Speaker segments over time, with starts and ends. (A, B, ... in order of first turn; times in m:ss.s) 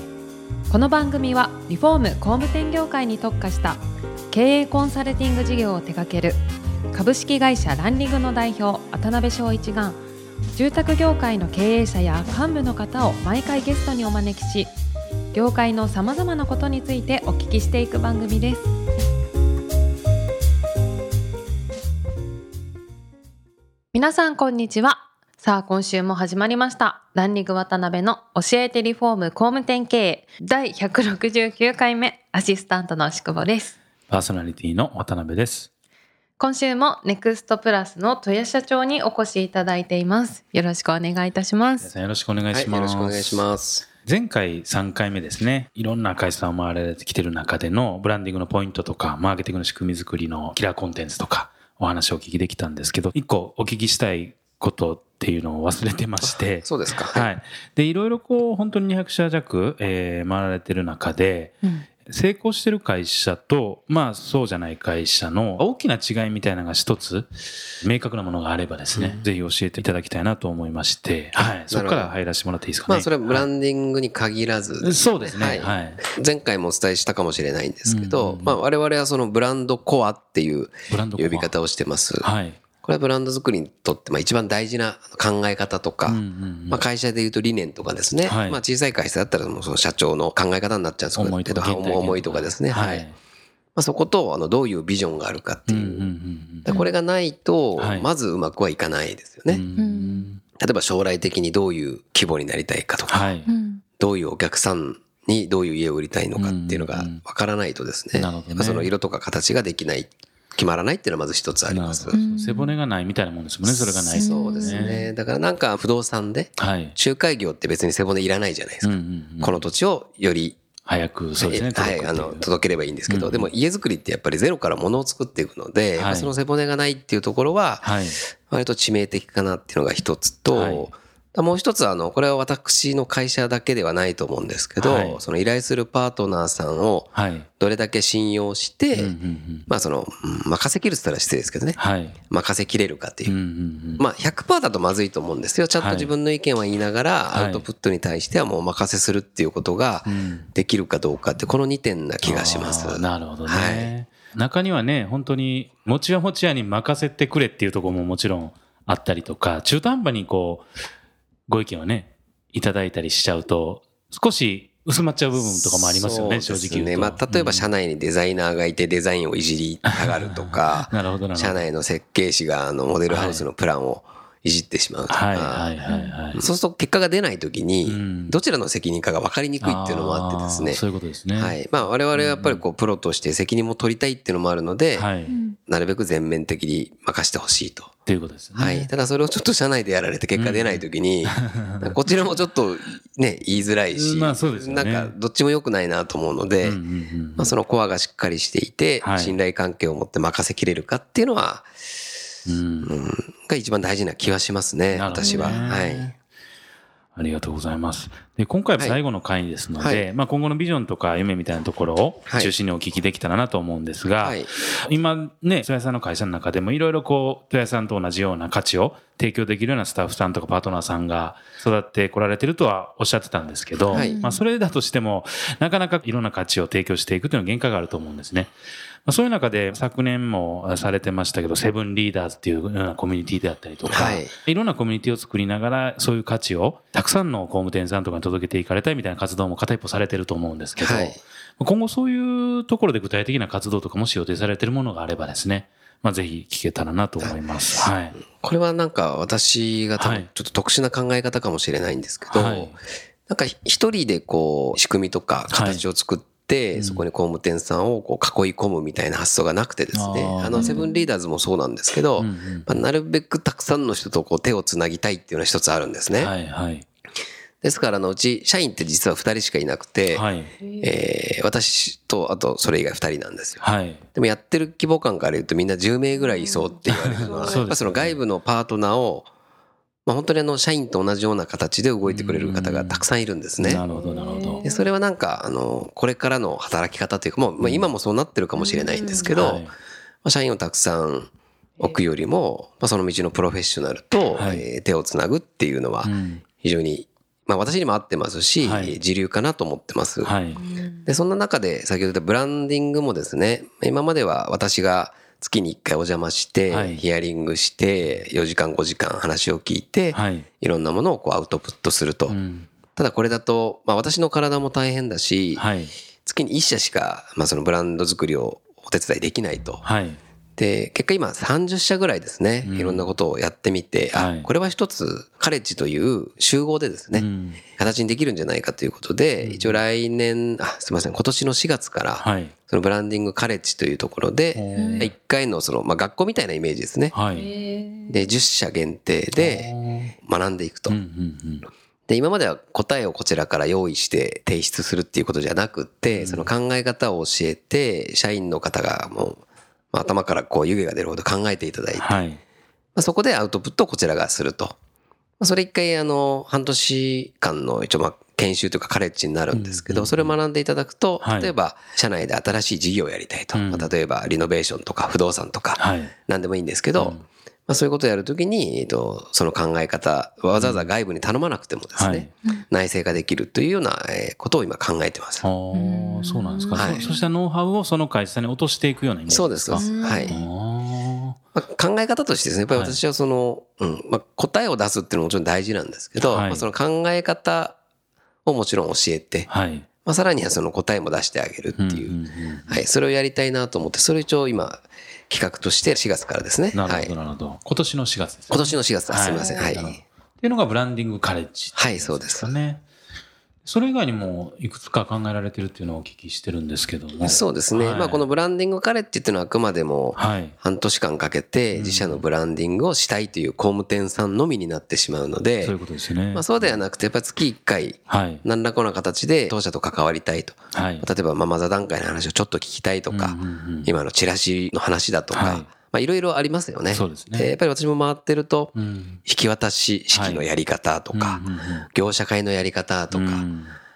0:00.7-0:06.4 A
0:06.9-0:10.0 A
0:10.6-0:14.7 A
0:15.3-0:18.7 A
0:23.9-0:33.8 A
0:34.1-0:35.7 B
0:36.4-0:41.9 A
0:41.8-0:43.4 B
0:42.5-0:43.9 C
0:44.0-1:07.3 B
0:56.2-0:57.3 C
1:07.8-1:13.5 B
1:08.9-1:09.2 C
1:11.7-1:12.1 C
1:12.9-1:22.3 C
1:14.8-1:16.0 B
1:17.9-1:18.6 B
1:20.9-1:21.5 B
1:22.2-1:22.6 B
1:22.8-1:33.1 C
1:26.1-1:26.8 B
1:28.2-1:28.6 B
1:31.2-1:33.2 B
1:33.8-1:36.1 C
1:35.7-1:36.7 B
1:36.6-1:39.6 C
1:37.8-1:38.1 B
1:39.5-1:40.4 B
1:39.8-1:40.3 A
1:40.6-1:43.3 C
1:43.1-1:43.5 B
1:43.5-1:43.8 A
1:44.0-1:52.2 C
1:46.4-1:47.2 B
1:48.2-1:48.9 B
1:51.7-1:55.0 B
1:52.1-1:52.8 A
1:53.8-2:00.6 C
1:54.1-1:55.1 A
1:56.6-1:57.0 B
1:58.8-1:59.6 B
2:00.9-2:02.5 B
2:01.4-2:07.9 C
2:03.1-2:03.5 B
2:06.0-2:06.3 B
2:07.8-2:08.2 B
2:08.4-2:19.1 C
2:10.5-2:10.9 B
2:14.8-2:15.2 B
2:17.2-2:17.5 B
2:18.9-2:19.7 B
2:19.7-2:21.8 C
2:21.8-2:22.2 B
2:22.3-2:23.3 C
2:23.3-2:24.0 B
2:24.0-2:33.9 C
2:25.8-2:26.1 B
2:27.3-2:27.7 B
2:30.1-2:30.5 B
2:32.2-2:40.7 B
2:41.5-2:47.7 B
2:45.4-2:55.7 C
2:49.9-2:51.7 B
2:53.1-2:53.5 B
2:55.1-2:56.4 B
2:55.9-2:56.1 A
2:56.3-3:00.8 C
2:57.8-2:58.4 B
2:59.6-3:01.6 B
3:01.4-3:05.1 C
3:02.1-3:02.6 B
3:05.0-3:05.4 B
3:05.3-3:05.6 A
3:05.7-3:07.9 C
3:08.1-3:08.9 B
3:08.6-3:16.8 C
3:10.4-3:11.9 B
3:13.9-3:15.1 B
3:16.6-3:17.5 B
3:17.4-3:21.7 C
3:19.0-3:19.4 B
3:22.5-3:22.9 B
3:22.8-3:26.1 C
3:24.9-3:26.2 B
3:25.2-3:25.6 A
3:27.2-3:48.5 B
3:29.8-3:30.1 C
3:32.3-3:32.5 C
3:34.2-3:34.5 C
3:43.9-3:44.2 C
3:43.9-3:44.4 A
3:49.1-4:08.2 B
3:53.9-3:54.3 C
4:00.8-4:01.2 C
4:07.2-4:26.3 C
4:10.0-4:10.3 B
4:12.3-4:12.8 B
4:15.5-4:15.8 B
4:16.8-4:17.0 B
4:19.9-4:20.9 B
4:20.6-4:21.0 A
4:22.2-4:22.8 B
4:26.1-4:26.9 B
4:27.6-4:30.2 C
4:30.1-4:30.5 B
4:30.6-4:30.9 A
4:30.8-4:33.6 C
4:33.6-4:34.0 B
4:34.2-4:39.3 C
4:36.9-4:38.2 B
4:37.2-4:37.7 A
4:40.1-4:43.8 C
4:42.1-4:43.1 B
4:43.6-4:44.6 B
4:43.9-4:44.9 A
4:44.6-4:49.7 C
4:47.6-4:47.9 B
4:48.6-4:49.2 A
4:49.3-4:49.7 B
4:50.2-5:00.3 C
4:54.4-4:54.6 B
4:56.0-4:56.4 B
4:58.6-4:59.0 B
5:00.2-5:00.6 B
5:00.6-5:01.1 A
5:01.1-5:12.4 C
5:06.7-5:07.0 B
5:10.1-5:10.5 B
5:12.3-5:12.7 B
5:13.0-5:15.6 C
5:15.6-5:15.9 B
5:16.2-5:19.8 C
5:19.8-5:20.2 B
5:20.6-5:27.3 C
5:22.6-5:23.1 B
5:24.2-5:24.5 B
5:27.2-5:27.6 B
5:27.8-5:37.2 C
5:29.4-5:29.8 B
5:32.2-5:32.5 B
5:34.5-5:35.1 B
5:34.8-5:35.1 A
5:37.1-5:37.5 B
5:37.3-5:37.8 A
5:38.1-5:41.0 C
5:39.4-5:40.1 B
5:40.9-5:41.7 B
5:42.1-5:49.4 C
5:46.1-5:46.5 B
5:49.9-5:52.2 C
5:52.0-5:52.4 B
5:53.0-5:54.8 C
5:55.4-6:15.4 C
5:59.5-6:00.4 B
6:01.2-6:01.5 B
6:03.5-6:03.9 B
6:05.8-6:06.1 B
6:07.0-6:07.2 B
6:10.6-6:10.9 B
6:12.0-6:12.3 B
6:15.4-6:21.4 B
6:15.7-6:17.3 A
6:16.8-6:17.1 C
6:19.3-6:20.4 C
6:19.7-6:20.4 A
6:21.6-6:27.8 C
6:22.7-6:23.0 B
6:26.2-6:26.7 B
6:28.5-6:29.5 C
6:29.5-6:29.9 B
6:30.0-6:32.2 C
6:31.8-6:32.8 B
6:32.7-6:37.1 C
6:36.7-6:42.8 B
6:38.5-6:39.9 C
6:39.2-6:39.8 A
6:41.8-6:42.5 C
6:43.7-6:48.2 B
6:47.2-6:55.8 C
6:50.1-6:50.6 B
6:51.7-6:52.2 B
6:55.6-6:56.8 B
6:56.3-7:08.7 C
6:58.1-6:58.4 B
7:00.7-7:01.0 B
7:03.1-7:03.9 B
7:05.3-7:05.7 B
7:06.9-7:07.5 B
7:08.7-7:09.2 B
7:09.2-7:13.5 C
7:10.1-7:10.5 B
7:11.1-7:11.9 B
7:13.1-7:13.8 B